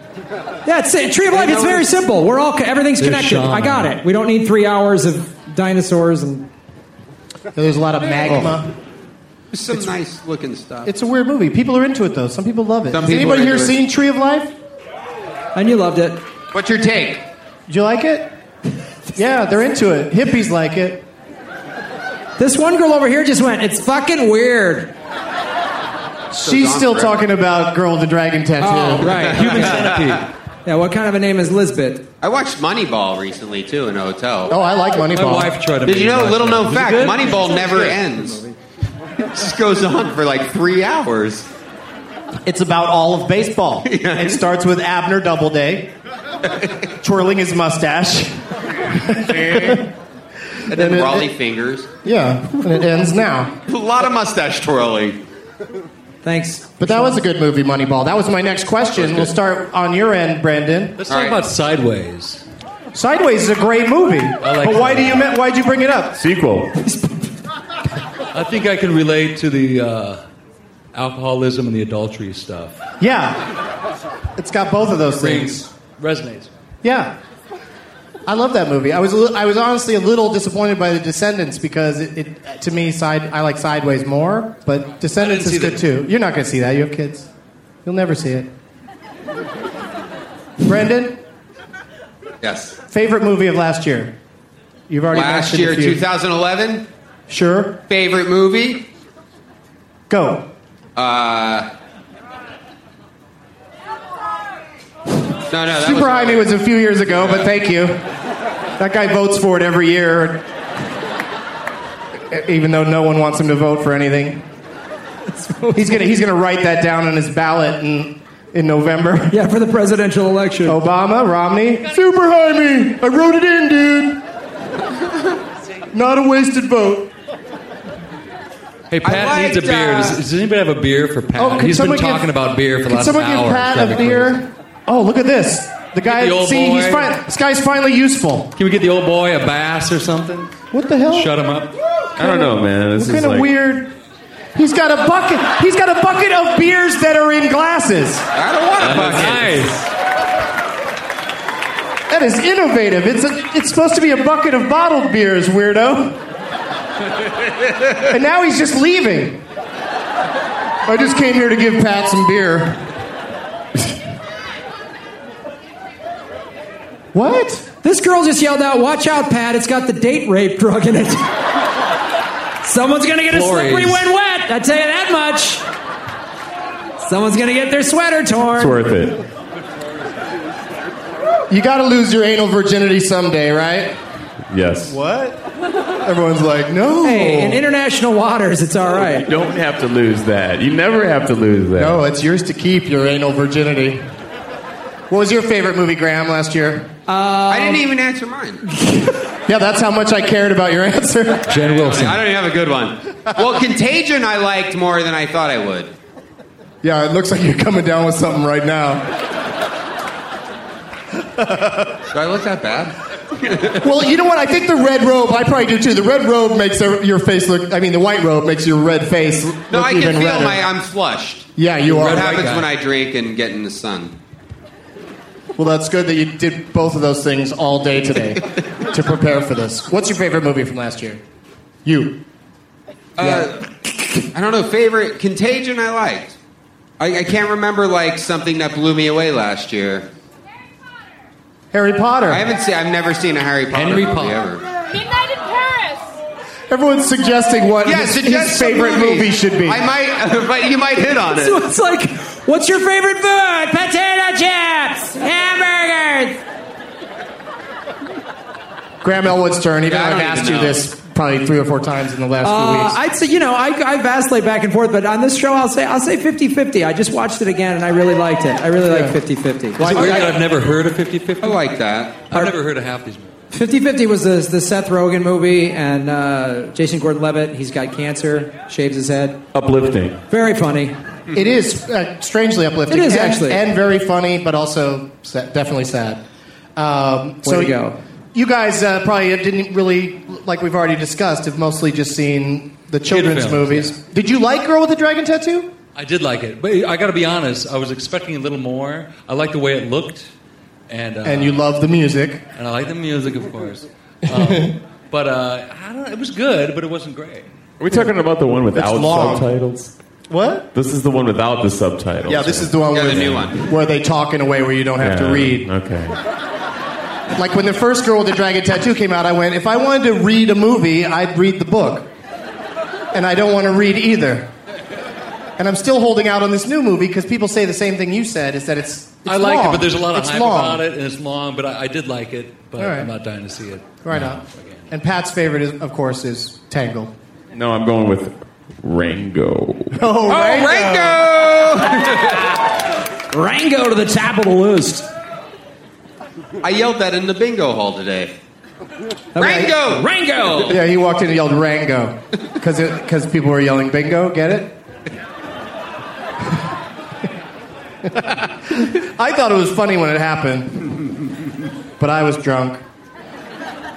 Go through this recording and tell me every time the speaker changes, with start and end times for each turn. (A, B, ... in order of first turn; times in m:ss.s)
0:00.7-0:06.4 A
0:01.3-0:01.9 B
0:03.0-0:03.9 C
0:07.6-0:08.7 D
0:09.5-0:10.9 B
0:10.8-0:14.5 D
0:12.9-0:13.8 B
0:15.6-0:16.2 A
0:16.5-0:17.2 B
0:17.7-0:18.3 D
0:19.2-0:21.0 D
0:22.4-0:24.9 A
0:26.3-0:29.2 D
0:26.4-0:27.2 B
0:28.6-0:29.9 A
0:29.1-0:30.2 B
0:29.2-0:30.3 C
0:30.6-0:32.0 A
0:32.2-0:34.5 B
0:34.5-0:35.6 D
0:35.1-0:38.0 C
0:35.8-0:38.4 B
0:37.4-0:38.5 A
0:39.2-0:41.5 B
0:42.4-0:45.9 D
0:43.8-0:44.4 B
0:47.0-0:49.9 D
0:49.3-0:49.8 B
0:50.7-0:51.3 D
0:50.7-0:51.9 B
0:52.0-0:53.5 D
0:53.7-0:55.2 B
0:56.2-0:57.2 A
0:56.8-1:01.0 D
1:01.0-1:02.4 C
1:01.1-1:01.4 B
1:02.9-1:06.2 D
1:04.4-1:05.3 C
1:06.2-1:06.7 E
1:06.8-1:07.2 A
1:08.3-1:10.2 C
1:10.9-1:12.8 C
1:13.0-1:13.5 D
1:14.4-1:15.7 D
1:15.2-1:16.5 C
1:16.8-1:17.1 D
1:18.3-1:27.3 D
1:25.2-1:25.8 C
1:27.8-1:28.5 D
1:30.6-1:31.2 D
1:32.4-1:32.8 B
1:32.9-1:34.1 D
1:34.9-1:36.0 D
1:35.1-1:36.9 B
1:37.3-1:37.8 D
1:37.9-1:38.9 B
1:40.1-1:40.5 D
1:41.0-1:41.7 B
1:45.5-1:46.5 B
1:45.7-1:48.0 D
1:47.1-1:47.5 B
1:48.8-1:50.4 D
1:52.3-1:54.4 D
1:55.3-1:56.1 A
1:55.8-1:59.4 D
1:59.3-2:00.8 A
2:00.6-2:04.2 D
2:05.9-2:07.1 D
2:08.9-2:14.4 C
2:09.0-2:10.2 B
2:11.4-2:12.3 D
2:12.8-2:18.5 D
2:16.1-2:17.1 C
2:18.6-2:21.8 C
2:20.7-2:21.3 D
2:22.2-2:23.5 E
2:22.2-2:23.9 D
2:24.6-2:28.3 D
2:28.3-2:29.6 B
2:28.8-2:29.9 C
2:32.1-2:36.2 D
2:38.0-2:39.4 D
2:40.8-2:42.8 D
2:47.1-2:47.7 D
2:47.8-2:51.2 A
2:52.6-2:55.6 A
2:53.3-2:54.0 C
2:57.0-2:58.8 A
2:58.6-2:59.3 E
3:01.5-3:04.0 D
3:04.5-3:05.0 E
3:04.9-3:05.4 D
3:06.0-3:07.6 D
3:07.0-3:09.3 A
3:09.2-3:12.0 E
3:11.8-3:14.0 D
3:15.1-3:16.9 D
3:17.1-3:17.9 A
3:17.5-3:18.6 B
3:18.7-3:19.2 A
3:19.5-3:21.5 D
3:21.5-3:22.2 C
3:21.6-3:25.9 B
3:26.8-3:29.1 D
3:31.4-3:31.9 D
3:32.1-3:33.8 B
3:33.8-3:40.6 D
3:39.7-3:44.1 B
3:41.6-3:42.4 D
3:41.8-3:42.7 C
3:45.6-3:51.2 D
3:51.8-3:52.2 D
3:53.2-3:53.7 B
3:53.2-3:53.5 D
3:54.3-3:56.4 B
3:57.0-4:00.1 B
4:01.7-4:02.5 D
4:02.3-4:04.6 B
4:03.7-4:04.4 C
4:06.7-4:09.8 D
4:07.8-4:11.6 B
4:11.3-4:16.4 A
4:19.0-4:23.0 D
4:19.9-4:20.8 B
4:22.4-4:29.8 A
4:28.8-4:29.2 D
4:29.8-4:30.4 D
4:29.8-4:31.6 C
4:31.4-4:32.3 B
4:32.3-4:33.4 C
4:33.5-4:39.4 A
4:39.5-4:40.2 E
4:40.3-4:40.9 A
4:41.3-4:46.2 D
4:42.9-4:43.6 A
4:46.8-4:47.8 D
4:47.4-4:48.0 A
4:48.3-4:55.7 D
4:53.1-4:53.9 C
4:56.0-5:00.3 C
5:00.9-5:01.6 C
5:01.2-5:02.4 D
5:02.6-5:07.5 C
5:04.3-5:04.7 D
5:07.8-5:09.9 E
5:08.7-5:09.5 D
5:10.3-5:10.7 D
5:10.7-5:13.5 E
5:12.3-5:15.7 D
5:12.9-5:13.7 B
5:15.0-5:16.2 E
5:17.4-5:22.1 D
5:23.1-5:24.5 D
5:25.6-5:30.8 D
5:29.2-5:34.8 C
5:32.8-5:33.1 D
5:34.0-5:37.1 D
5:37.5-5:40.0 E
5:40.0-5:41.2 D
5:40.3-5:42.4 B
5:43.3-5:45.1 A
5:46.6-5:48.3 B
5:49.4-5:50.8 A
5:49.4-5:50.1 B
5:49.4-5:49.7 D
5:50.6-5:54.7 D
5:58.1-6:01.1 D
6:02.0-6:02.8 D